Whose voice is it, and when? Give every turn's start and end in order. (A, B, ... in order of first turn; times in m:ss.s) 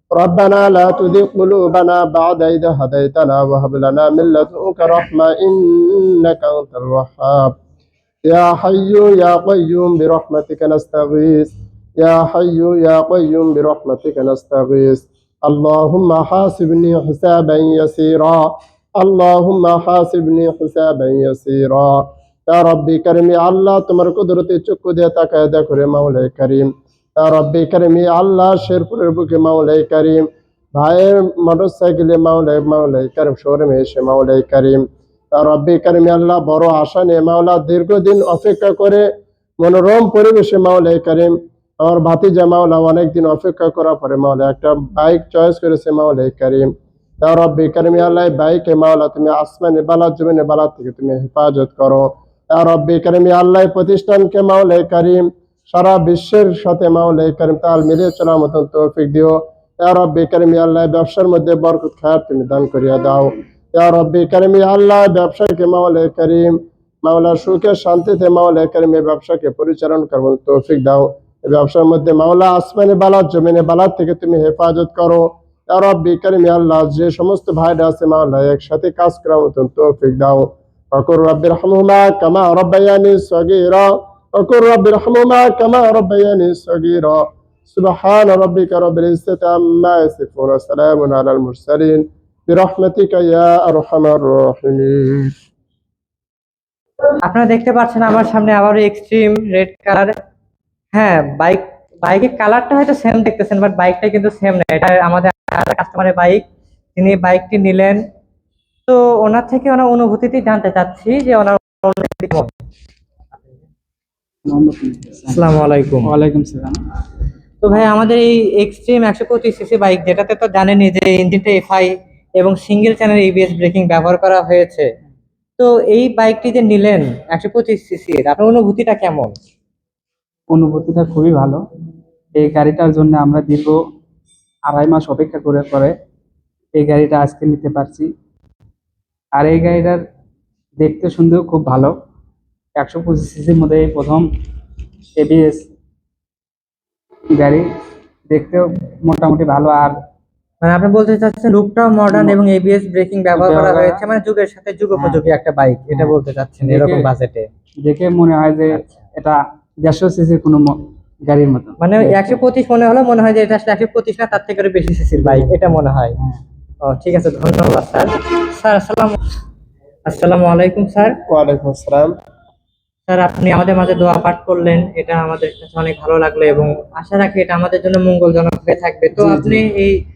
0:00.1-0:07.5 A
0:08.3-0:18.5 A
0:19.0-0:39.0 A
0:39.6-0:46.7 A
0:47.2-1:35.3 A
1:37.2-1:40.1 B
1:40.9-1:46.4 B
1:47.0-1:48.0 B
1:48.9-1:52.5 B
1:54.4-1:55.4 C
1:55.3-1:56.1 B
1:56.0-1:56.8 C
1:57.6-2:04.9 B
2:05.6-2:09.4 B
2:10.5-2:11.6 C
2:12.3-2:13.8 C
2:14.6-2:15.9 C
2:16.7-2:18.1 C
2:19.4-2:20.0 C
2:20.8-2:21.9 C
2:22.8-2:24.3 C
2:25.2-2:25.6 C
2:27.3-2:27.6 C
2:28.3-2:30.0 C
2:30.6-2:37.5 B
2:32.1-2:32.4 C
2:33.3-2:34.0 C
2:35.9-2:37.1 C
2:37.8-2:42.2 C
2:38.7-2:39.0 B
2:41.8-2:46.1 B
2:46.8-2:49.2 B
2:50.1-2:51.2 B
2:51.2-2:52.1 A
2:53.1-3:00.0 B
2:59.2-2:59.6 A